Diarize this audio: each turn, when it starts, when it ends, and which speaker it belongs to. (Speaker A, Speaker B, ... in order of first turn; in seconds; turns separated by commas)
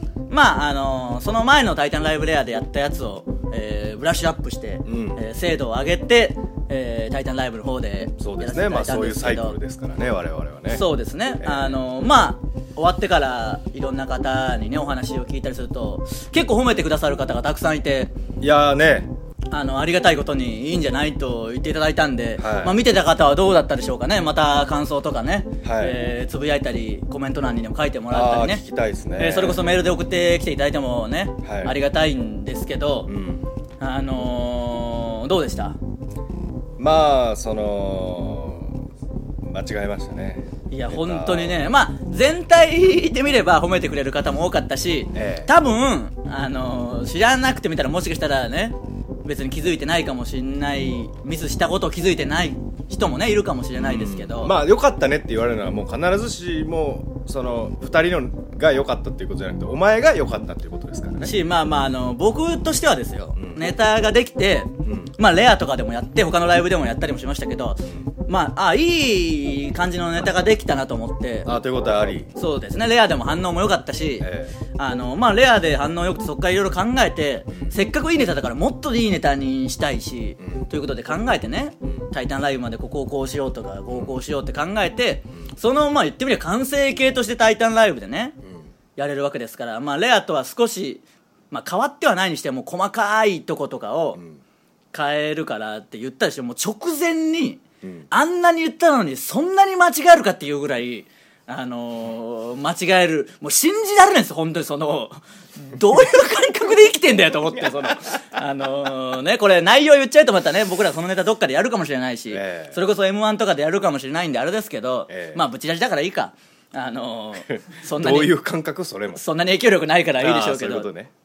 Speaker A: 0.3-9.6, Speaker B: 4.8-5.2, Speaker B: 8.2-10.8, Speaker A: 10.7-18.1, Speaker B: 11.4-11.8, Speaker B: 18.4-19.1, Speaker A: 19.5-28.6, Speaker B: 22.4-22.8, Speaker B: 25.6-26.0, Speaker B: 28.1-29.7, Speaker A: 29.2-33.1, Speaker B: 31.4-31.8, Speaker B: 33.1-33.5, Speaker A: 33.8-35.8, Speaker B: 36.8-38.8, Speaker B: 39.4-41.6, Speaker A: 40.7-54.5, Speaker B: 45.1-45.5, Speaker B: 53.8-61.3, Speaker A: 61.2-71.5, Speaker B: 63.4-63.6, Speaker B: 64.9-65.1, Speaker B: 71.5-72.3, Speaker A: 72.3-88.4, Speaker B: 74.2-74.5, Speaker B: 88.4-88.7, Speaker A: 89.0-94.2, Speaker A: 94.9-118.3, Speaker B: 97.8-98.1, Speaker B: 107.6-108.0, Speaker B: 112.3-112.8, Speaker B: 115.1-115.4, Speaker B: 117.5-119.2, Speaker A: 119.1-120.9, Speaker B: 120.2-121.1